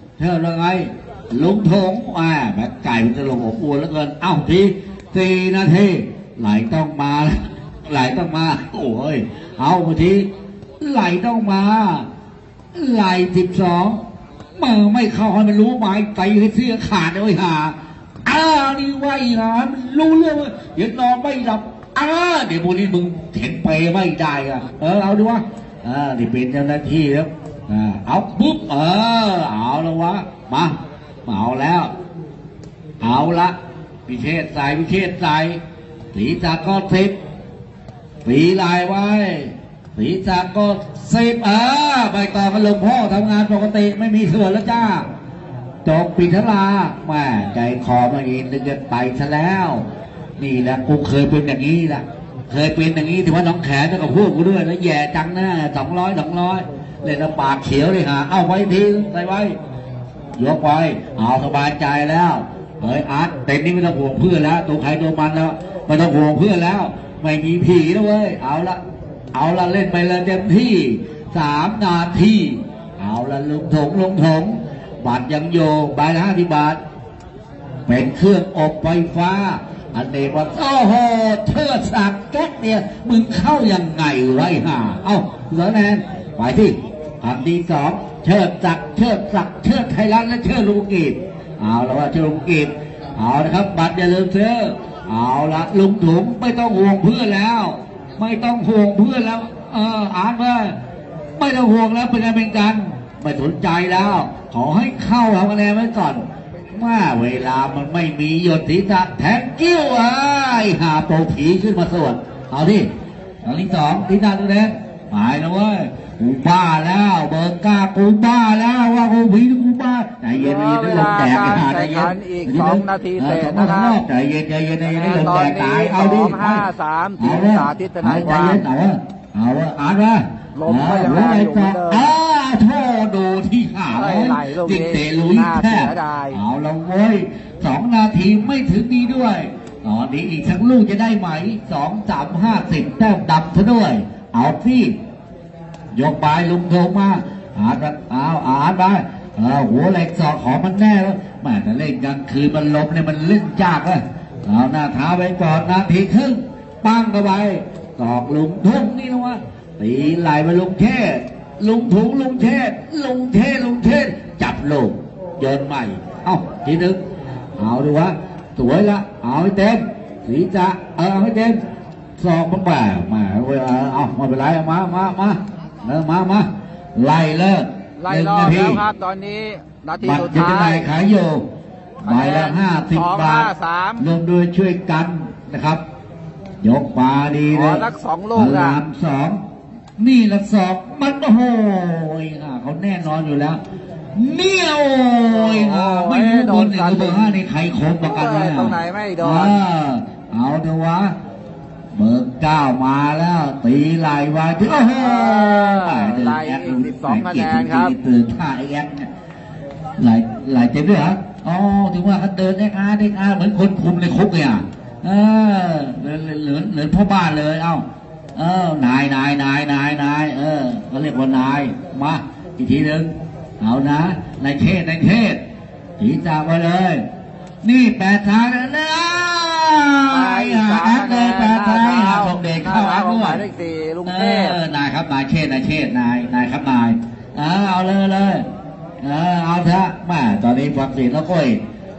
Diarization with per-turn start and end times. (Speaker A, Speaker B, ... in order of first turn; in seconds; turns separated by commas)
Speaker A: 0.2-10.3, Speaker A: 10.8-12.1, Speaker A: 12.7-14.0, Speaker A: 14.6-31.9, Speaker A: 33.0-33.5, Speaker A: 34.1-35.6, Speaker A: 36.1-37.2, Speaker A: 38.2-45.1, Speaker A: 45.8-49.9, Speaker A: 50.4-59.6, Speaker A: 60.4-68.8, Speaker A: 69.3-76.8, Speaker A: 77.9-100.8, Speaker A: 101.4-112.9, Speaker A: 113.4-126.7, Speaker B: 120.3-124.0, Speaker B: 124.8-128.7, Speaker A: 127.2-144.9, Speaker B: 130.6-132.1, Speaker B: 133.9-136.4, Speaker A: 145.9-167.0, Speaker A: 167.6-171.6, Speaker A: 172.2-178.8, Speaker B: 178.0-180.9, Speaker A: 180.0-181.5, Speaker A: 182.0-185.8, Speaker B: 182.0-184.0, Speaker A: 186.6-189.4, Speaker B: 187.5-188.8, Speaker A: 190.0-193.6, Speaker A: 194.1-201.1, Speaker B: 195.3-197.4, Speaker B: 198.0-199.6, Speaker A: 201.9-209.1, Speaker B: 204.6-207.9, Speaker A: 210.0-225.4, Speaker A: 226.0-227.0, Speaker A: 227.6-233.4, Speaker B: 230.1-234.6, Speaker A: 234.0-238.4, Speaker A: 239.0-241.6